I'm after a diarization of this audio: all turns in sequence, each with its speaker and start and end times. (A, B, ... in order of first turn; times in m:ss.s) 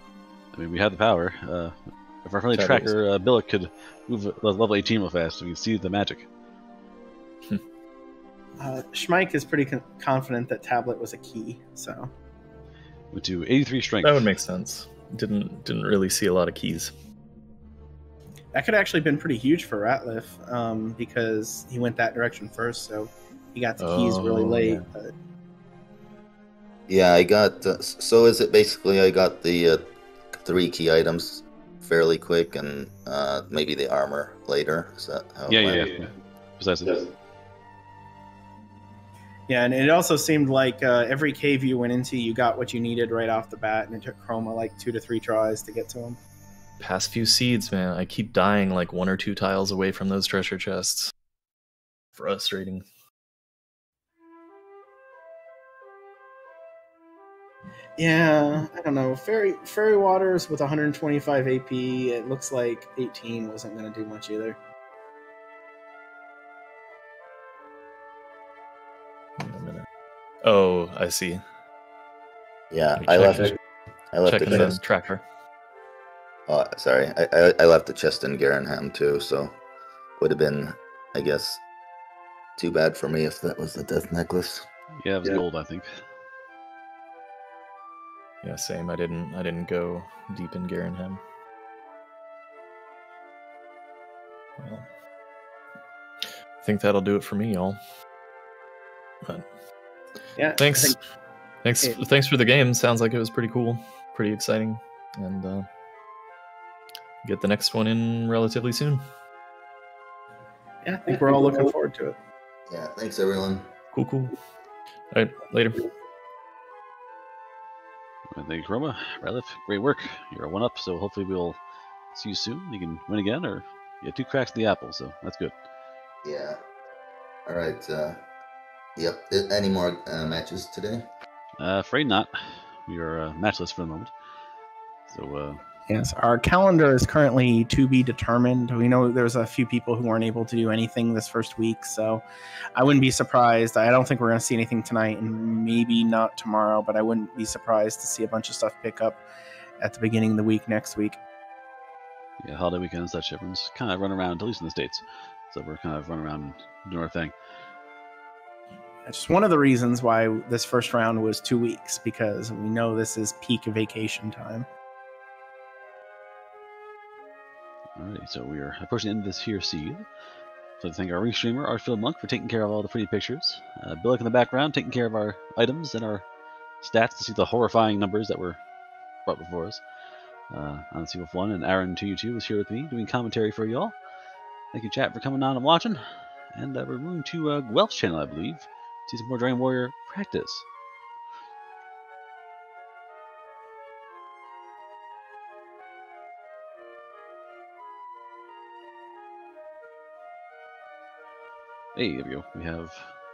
0:00.5-0:06.3 A
0:02.5-0:02.9 B
0:08.6-0:12.1 C
0:13.1-0:14.3 A
0:14.0-0:16.9 B
0:18.5-0:25.1 C
0:23.8-0:24.8 B
0:26.9-0:35.9 D
0:35.5-0:37.1 A
0:39.5-0:46.2 C
0:46.8-0:51.1 B
0:52.2-0:52.8 B
0:58.0-1:04.6 C
1:09.4-1:09.8 B
1:10.4-1:11.4 B
1:12.7-1:13.6 D
1:13.0-1:13.5 B
1:14.1-1:14.8 D
1:14.2-1:15.2 B
1:16.5-1:19.6 D
1:20.2-1:21.6 D
1:22.6-1:24.7 D
1:25.0-1:26.0 A
1:28.4-1:31.2 B
1:34.6-1:34.8 B
1:36.6-1:37.8 B
1:40.4-1:41.0 C
1:40.6-1:41.0 B
1:41.6-1:45.7 B
1:47.2-1:49.0 B
1:50.8-1:52.2 C
1:52.7-1:53.7 D
1:53.9-1:54.4 B
1:55.1-1:55.8 B
1:58.3-2:01.6 A
2:02.1-2:05.5 A
2:06.2-2:06.6 D
2:07.4-2:08.2 D
2:09.0-2:11.1 D
2:11.6-2:14.1 A
2:15.1-2:15.6 A
2:15.9-2:29.2 C
2:29.8-2:31.2 C
2:32.4-2:37.3 A
2:39.0-2:44.7 C
2:48.0-2:50.0 A
2:50.8-2:56.2 A
2:56.8-2:58.6 A
2:59.2-2:59.8 A
3:00.5-3:03.9 A
3:04.7-3:06.0 A
3:06.5-3:10.6 A
3:21.9-3:23.1 A